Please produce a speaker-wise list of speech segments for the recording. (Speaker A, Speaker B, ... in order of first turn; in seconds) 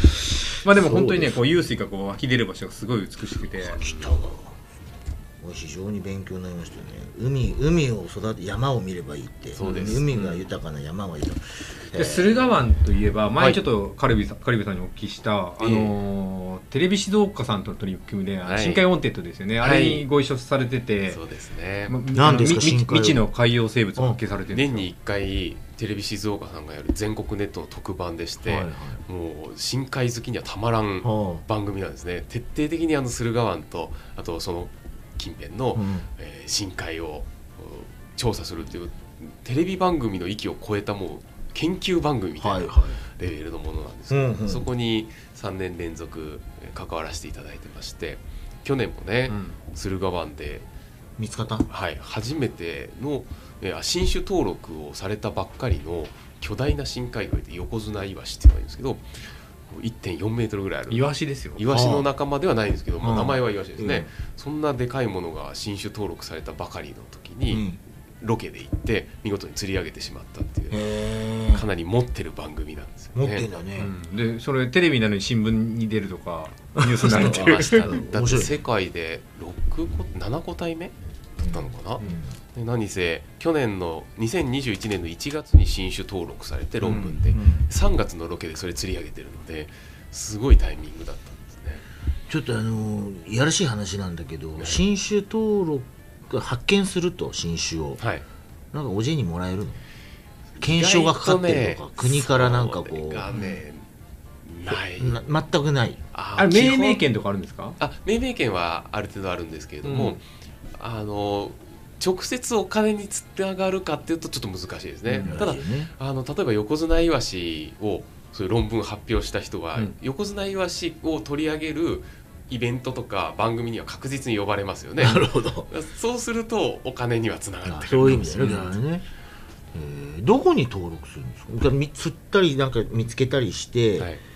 Speaker A: 0.2-3.8, 9.6-10.2, 11.9-21.2, 21.9-24.9, 49.3-49.6, 60.9-61.6, 73.8-77.9, 106.3-107.8, 109.8-110.2, 115.1-115.5, 128.4-128.7
Speaker B: 0.7-1.4, 3.6-4.5, 5.4-12.4, 22.1-23.2, 28.4-29.0, 31.0-31.4, 35.8-36.1, 42.4-43.0, 44.1-44.7, 51.2-51.7, 61.7-62.1, 63.0-64.1, 67.5-67.8, 70.7-71.7, 73.2-73.9, 76.8-78.6, 81.4-82.3, 86.8-87.7, 92.3-98.0, 98.7-99.8, 100.6-103.5, 104.7-106.0, 115.2-115.9, 125.0-125.7, 127.6-129.1, 129.7-134.1
Speaker C: 9.6-10.4, 13.3-13.6, 15.6-15.9, 18.4-18.8, 19.6-20.1, 21.1-22.0, 24.5-50.7, 51.7-61.0, 61.5-70.8, 71.5-73.5, 77.0-82.0, 82.5-91.8, 98.0-98.2, 100.6-103.8, 104.5-105.2, 106.1-107.0, 107.8-110.2, 110.8-128.7, 134.0-134.2